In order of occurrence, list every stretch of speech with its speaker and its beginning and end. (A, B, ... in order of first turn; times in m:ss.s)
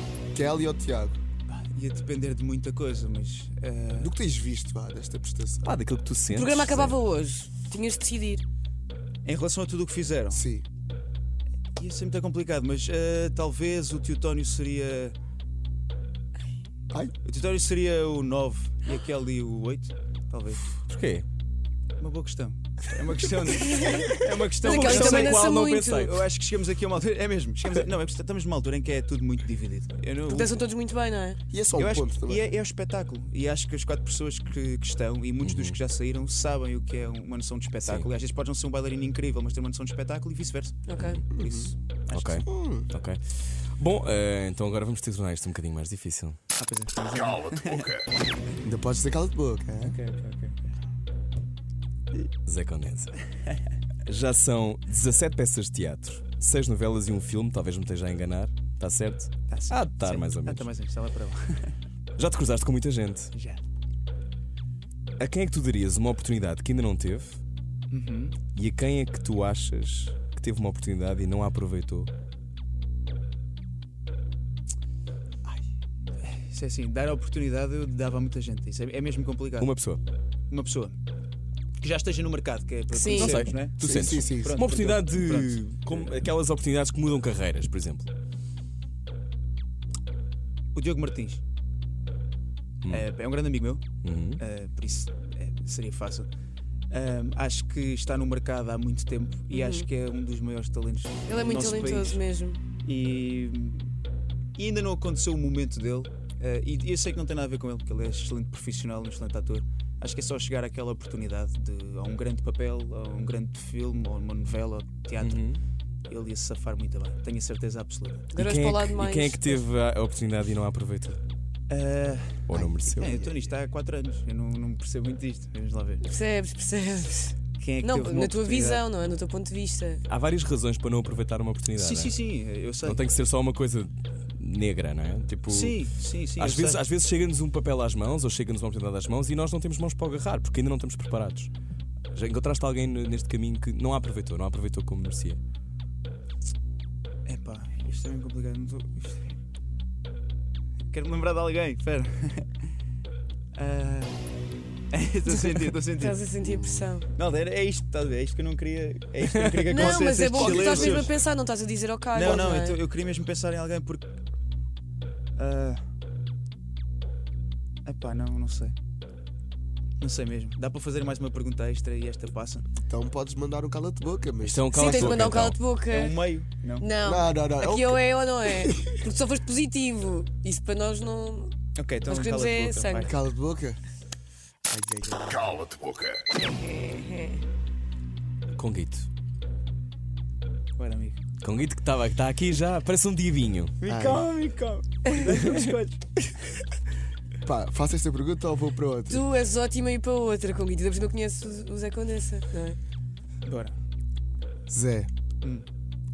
0:00.3-0:01.2 A
0:01.5-0:04.1 B
0:04.0-0:05.7 A
0:05.6-0:07.0 C
0:06.3-0:08.4 D
0:09.2-0:10.4 B
0:10.3-0:10.6 A
0:11.8-0:15.2 B
0:17.2-0:20.7 B
0:20.8-0:21.2 C
0:22.0-0:30.6 B
0:23.6-0:26.0 D
0:24.5-0:26.2 C
0:30.3-0:31.4 D
0:31.5-0:32.4 A
0:31.8-0:40.8 B
0:35.4-0:35.8 C
0:37.8-0:38.1 C
0:40.8-0:41.2 D
0:41.0-0:41.2 C
0:41.3-0:41.7 A
0:41.4-0:42.4 B
0:42.1-0:46.4 C
0:42.4-0:42.9 A
0:46.6-0:48.0 B
0:48.6-0:50.0 A
0:49.8-0:50.7 B
0:52.4-0:53.2 C
0:54.0-1:00.7 C
0:59.5-1:01.8 B
1:02.2-1:03.3 C
1:03.3-1:03.6 B
1:05.2-1:07.4 C
1:07.9-1:08.4 B
1:08.5-1:12.1 C
1:16.2-1:19.7 B
1:19.6-1:20.0 C
1:20.5-1:21.0 B
1:21.8-1:26.1 B
1:22.9-1:23.4 D
1:23.0-1:28.1 C
1:23.8-1:24.6 A
1:30.7-1:31.4 B
1:32.9-1:33.8 B
1:34.0-1:34.4 C
1:34.4-1:36.3 B
1:36.9-1:42.2 B
1:39.5-1:39.9 D
1:41.3-1:42.6 D
1:42.8-1:43.9 B
1:44.6-1:55.5 B
1:55.2-1:55.6 C
1:56.1-1:58.3 B
1:58.3-1:59.6 D
1:58.4-2:01.2 C
2:01.7-2:06.0 B
2:02.5-2:03.2 C
2:03.0-2:03.3 A
2:06.0-2:10.0 D
2:07.6-2:08.8 B
2:10.1-2:12.2 C
2:11.8-2:13.0 B
2:12.8-2:21.5 C
2:15.5-2:16.8 B
2:22.1-2:25.4 C
2:27.2-2:29.4 B
2:30.9-2:32.5 B
2:33.5-2:34.2 B
2:34.9-2:36.2 B
2:35.3-2:37.1 D
2:36.4-2:36.9 A
2:37.1-2:41.1 B
2:39.3-2:41.0 C
2:39.7-2:42.8 D
2:42.1-2:44.1 B
2:45.4-2:45.8 B
2:47.8-2:48.7 B
2:50.0-2:52.7 B
2:52.8-2:55.1 A
2:54.4-2:55.6 C
2:54.7-2:56.2 D
2:55.8-2:56.9 B
2:56.8-3:01.5 D
2:57.0-2:58.9 A
3:01.7-3:03.1 B
3:02.1-3:03.1 D
3:03.0-3:03.8 A
3:04.7-3:05.9 A
3:06.4-3:07.4 D
3:08.5-3:09.1 C
3:10.8-3:11.2 B
3:11.4-3:13.8 C
3:13.8-3:16.6 B
3:13.8-3:14.3 A
3:17.4-3:19.2 A
3:19.1-3:22.8 D
3:23.4-3:23.8 B
3:24.7-3:25.1 A